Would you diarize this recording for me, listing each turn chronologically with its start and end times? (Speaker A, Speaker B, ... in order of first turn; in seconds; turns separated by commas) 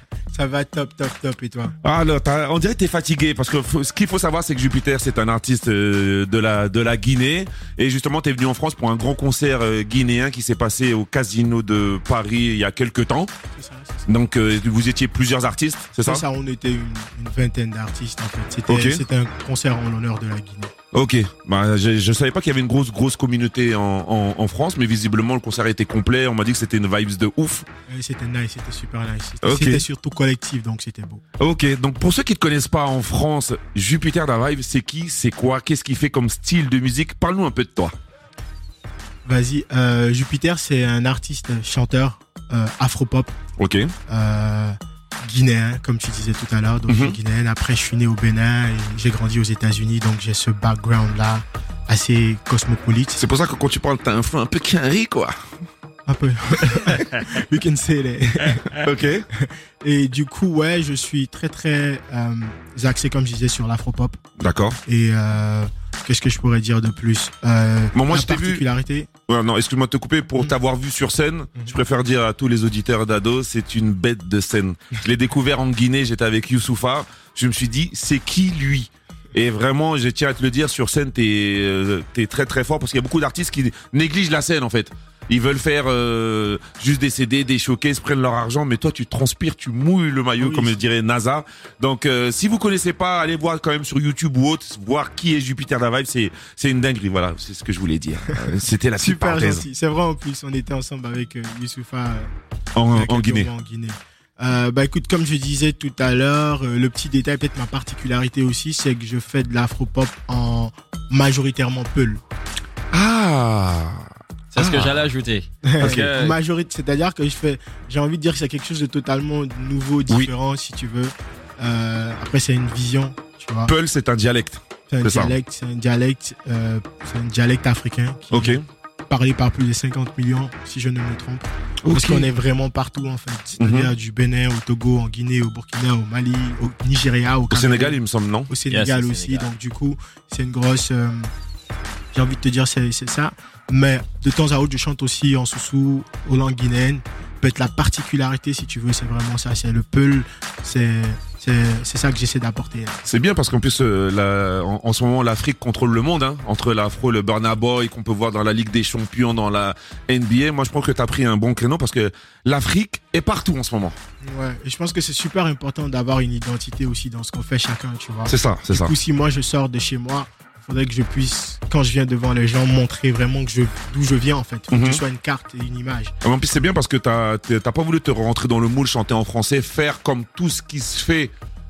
Speaker A: 0.3-1.7, Speaker B: 1.8-13.3, Speaker A: 13.5-14.1, Speaker B: 14.1-16.2, Speaker A: 16.0-20.7, Speaker B: 18.7-19.0, Speaker B: 20.9-27.6, Speaker A: 27.9-31.2, Speaker B: 29.4-29.9, Speaker B: 31.4-37.9, Speaker A: 39.2-43.3, Speaker B: 43.6-43.9, Speaker A: 44.1-53.2, Speaker B: 46.9-47.2, Speaker B: 53.1-55.3, Speaker A: 56.0-58.8, Speaker B: 58.8-59.2, Speaker A: 59.3-64.2, Speaker B: 64.4-64.8, Speaker A: 64.8-69.1, Speaker B: 67.9-68.6, Speaker B: 69.3-99.7, Speaker A: 90.4-90.8, Speaker A: 99.0-102.3, Speaker B: 102.8-103.5, Speaker A: 102.9-112.2, Speaker B: 112.9-115.1, Speaker C: 114.5-116.4, Speaker A: 115.6-123.7, Speaker B: 115.8-116.1, Speaker B: 123.6-125.3, Speaker A: 124.9-141.3, Speaker B: 128.3-128.6, Speaker B: 131.8-132.3, Speaker B: 133.6-133.9, Speaker B: 137.5-138.5, Speaker C: 138.7-139.5, Speaker A: 142.1-153.0, Speaker B: 153.0-164.0, Speaker A: 164.2-176.2, Speaker B: 168.2-168.9, Speaker B: 174.7-175.0, Speaker B: 176.2-181.3